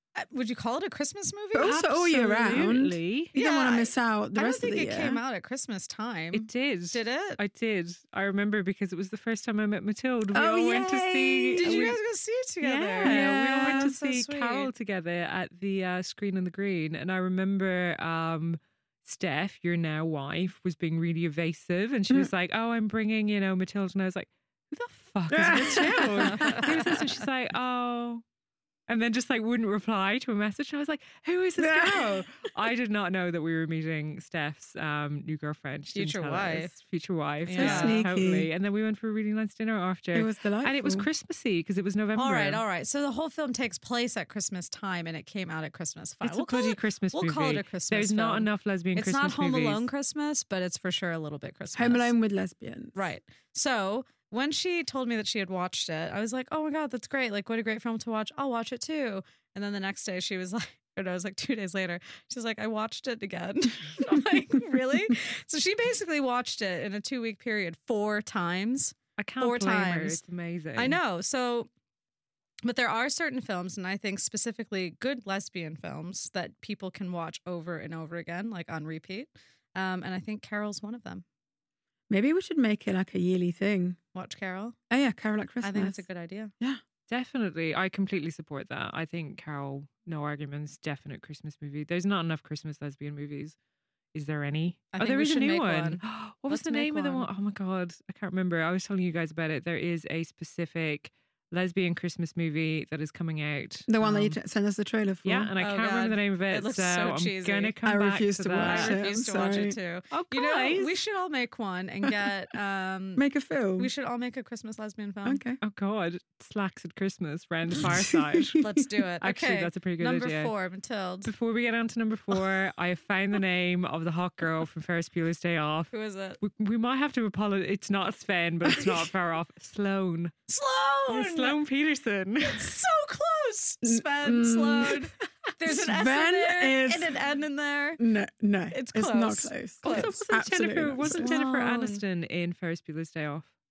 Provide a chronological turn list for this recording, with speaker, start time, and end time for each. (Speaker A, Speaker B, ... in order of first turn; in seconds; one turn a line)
Speaker A: 0.2-1.8
Speaker B: 1.5-5.2
Speaker C: 1.6-3.3
Speaker A: 3.3-7.4
Speaker C: 6.3-12.0
Speaker B: 10.3-11.9
Speaker A: 11.6-14.7
Speaker C: 12.6-28.2
Speaker B: 13.0-13.9
Speaker B: 25.3-27.0
Speaker A: 26.2-26.9
Speaker C: 28.9-42.6
Speaker B: 31.6-32.3
Speaker A: 35.9-36.7
Speaker A: 37.5-38.1
Speaker B: 37.6-38.5
Speaker B: 40.1-41.1
Speaker A: 42.2-52.1
Speaker C: 46.2-49.9
Speaker B: 51.8-53.0
Speaker A: 53.0-70.2
Speaker C: 69.2-71.0
Speaker A: 70.8-71.7
Speaker A: 72.6-81.2
Speaker B: 82.1-84.0
Speaker A: 84.2-84.8
Speaker B: 84.9-86.0
Speaker A: 85.6-86.5
Speaker C: 87.1-93.6
Speaker C: 94.1-104.4
Speaker A: 94.9-97.3
Speaker B: 103.9-105.5
Speaker C: 105.2-109.0
Speaker A: 105.6-107.7
Speaker B: 107.8-109.8
Speaker A: 108.6-113.2
Speaker C: 110.1-111.0
Speaker B: 113.2-113.9
Speaker A: 113.8-115.4
Speaker B: 115.2-115.6
Speaker C: 115.6-118.7
Speaker B: 117.8-118.6
Speaker A: 118.6-121.3
Speaker C: 119.2-120.5
Speaker C: 121.2-130.3
Speaker A: 125.9-126.4
Speaker A: 130.5-131.6
Speaker C: 131.1-132.8
Speaker A: 132.4-138.0
Speaker B: 133.8-135.1
Speaker B: 135.6-137.1
Speaker B: 138.0-141.3
Speaker A: 138.7-140.2
Speaker C: 139.8-143.5
Speaker A: 141.1-142.0